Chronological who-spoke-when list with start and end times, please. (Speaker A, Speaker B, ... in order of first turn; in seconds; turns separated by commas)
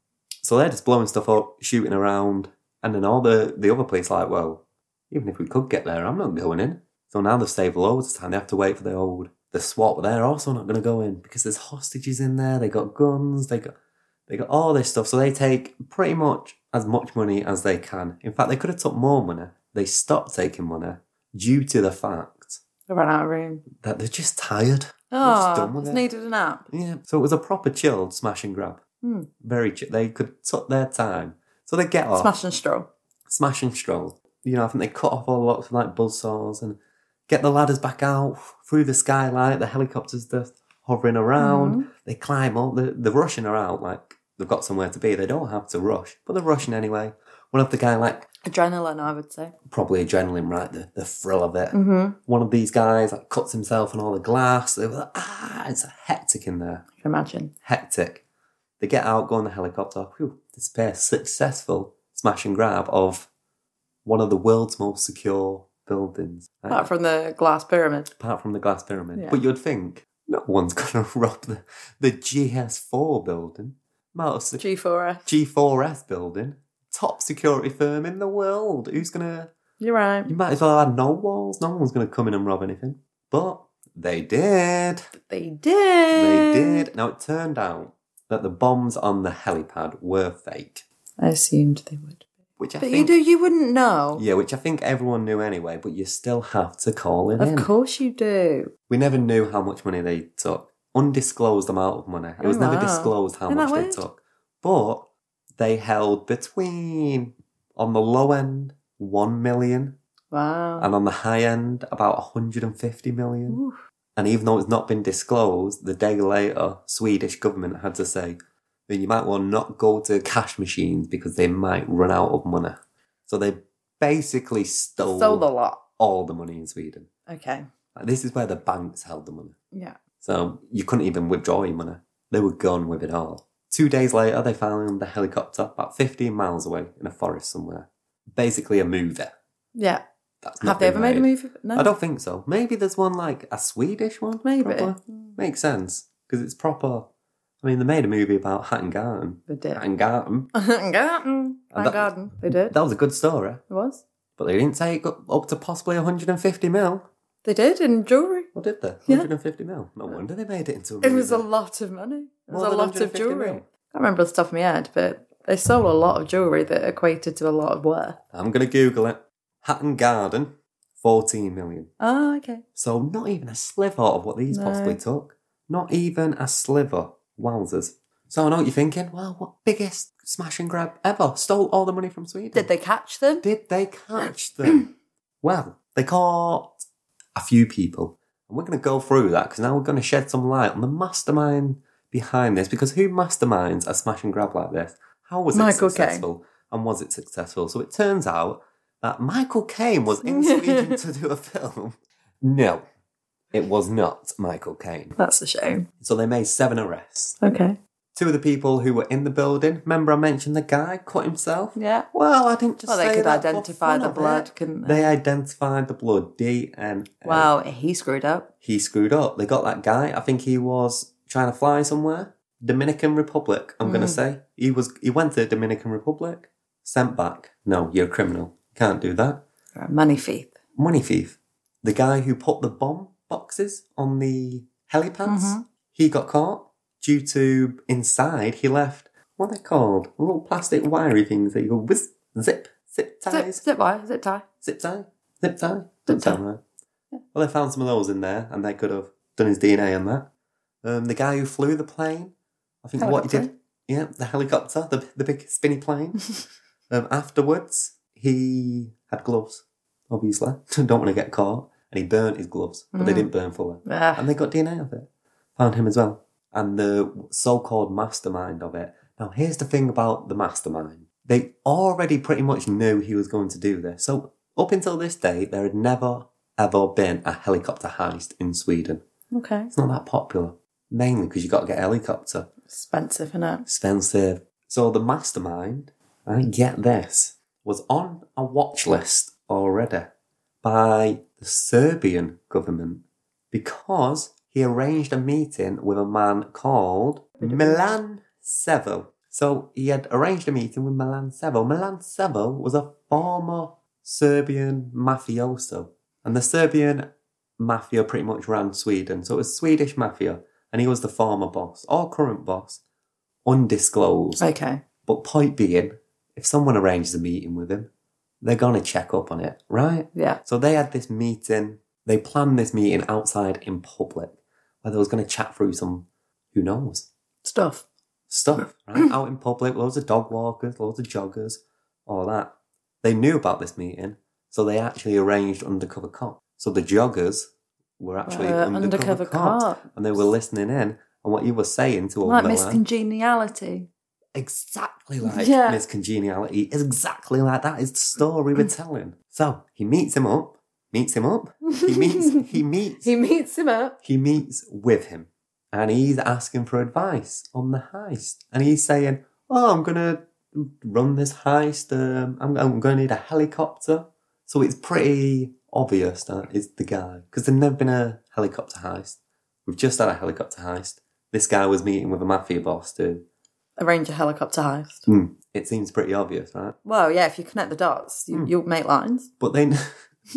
Speaker A: 0.4-13.7, Speaker A: 14.3-22.6, Speaker B: 22.9-23.6, Speaker A: 23.7-26.0, Speaker B: 25.1-26.7, Speaker A: 26.7-28.8, Speaker B: 29.0-29.3, Speaker A: 29.4-32.3, Speaker B: 32.2-32.9, Speaker A: 33.3-36.8, Speaker A: 37.3-48.3, Speaker B: 41.4-41.9, Speaker B: 48.4-49.5, Speaker A: 49.7-56.9, Speaker B: 51.7-52.2, Speaker B: 57.0-57.5, Speaker A: 57.6-58.2, Speaker A: 58.8-63.3, Speaker A: 64.0-66.9, Speaker B: 66.7-68.1, Speaker A: 68.2-74.7, Speaker B: 69.2-69.4, Speaker B: 74.6-75.3, Speaker A: 75.2-79.5, Speaker B: 79.8-80.3, Speaker A: 80.3-85.1, Speaker B: 85.1-86.9, Speaker A: 86.1-90.8, Speaker B: 91.2-92.2, Speaker A: 92.6-93.2, Speaker B: 92.8-94.2, Speaker A: 94.2-97.7, Speaker B: 97.4-98.7, Speaker A: 98.9-105.1, Speaker B: 102.4-104.0, Speaker A: 105.6-110.0, Speaker B: 110.3-110.9, Speaker A: 110.8-113.6, Speaker B: 113.5-113.8, Speaker A: 114.2-125.5, Speaker B: 125.0-125.8, Speaker A: 126.0-127.1, Speaker B: 127.3-127.7, Speaker A: 128.0-129.6, Speaker B: 129.7-130.0, Speaker A: 130.2-139.3, Speaker B: 139.8-140.0, Speaker A: 140.4-147.1, Speaker B: 140.6-141.9, Speaker B: 144.4-145.3, Speaker A: 147.6-150.5, Speaker B: 149.5-149.8, Speaker B: 150.5-152.8, Speaker A: 151.7-153.6, Speaker B: 153.7-154.0, Speaker A: 154.4-157.1, Speaker B: 157.4-158.5, Speaker A: 158.5-161.5, Speaker B: 161.0-168.2, Speaker A: 162.5-163.6, Speaker A: 168.3-171.9, Speaker B: 172.0-172.6, Speaker A: 172.8-182.7, Speaker B: 174.5-175.0, Speaker B: 182.5-183.4, Speaker A: 183.4-184.9, Speaker A: 185.4-186.8, Speaker A: 187.4-202.8, Speaker B: 195.5-196.3, Speaker B: 200.2-201.0, Speaker A: 203.5-205.2, Speaker B: 205.2-205.8, Speaker A: 206.0-207.4, Speaker B: 207.4-207.8, Speaker A: 208.2-217.5, Speaker B: 211.8-212.1, Speaker B: 212.9-215.2, Speaker B: 217.2-218.5, Speaker A: 218.6-229.4, Speaker B: 223.8-224.2, Speaker B: 229.8-230.6, Speaker A: 230.8-243.6, Speaker B: 235.3-235.6, Speaker B: 243.3-244.4, Speaker A: 244.6-246.6, Speaker B: 246.1-246.4, Speaker A: 247.3-250.3, Speaker A: 250.8-256.2, Speaker B: 253.0-253.5, Speaker A: 256.9-279.0, Speaker B: 262.9-263.3, Speaker B: 263.9-264.3, Speaker B: 279.3-279.7, Speaker A: 279.7-282.5, Speaker B: 282.7-283.6, Speaker A: 283.7-290.1, Speaker A: 290.6-307.1, Speaker B: 297.4-298.0, Speaker A: 307.6-312.8, Speaker A: 313.4-314.5, Speaker B: 314.4-314.8, Speaker A: 315.1-317.9, Speaker A: 318.4-327.1, Speaker B: 320.1-320.4, Speaker B: 327.4-327.8, Speaker A: 328.3-342.8, Speaker B: 338.3-339.8, Speaker B: 342.2-343.9, Speaker A: 344.4-353.1, Speaker B: 345.2-345.8, Speaker B: 351.7-354.0, Speaker A: 354.0-373.2, Speaker B: 373.8-375.1, Speaker A: 375.1-376.8, Speaker B: 376.9-379.3, Speaker A: 379.4-380.0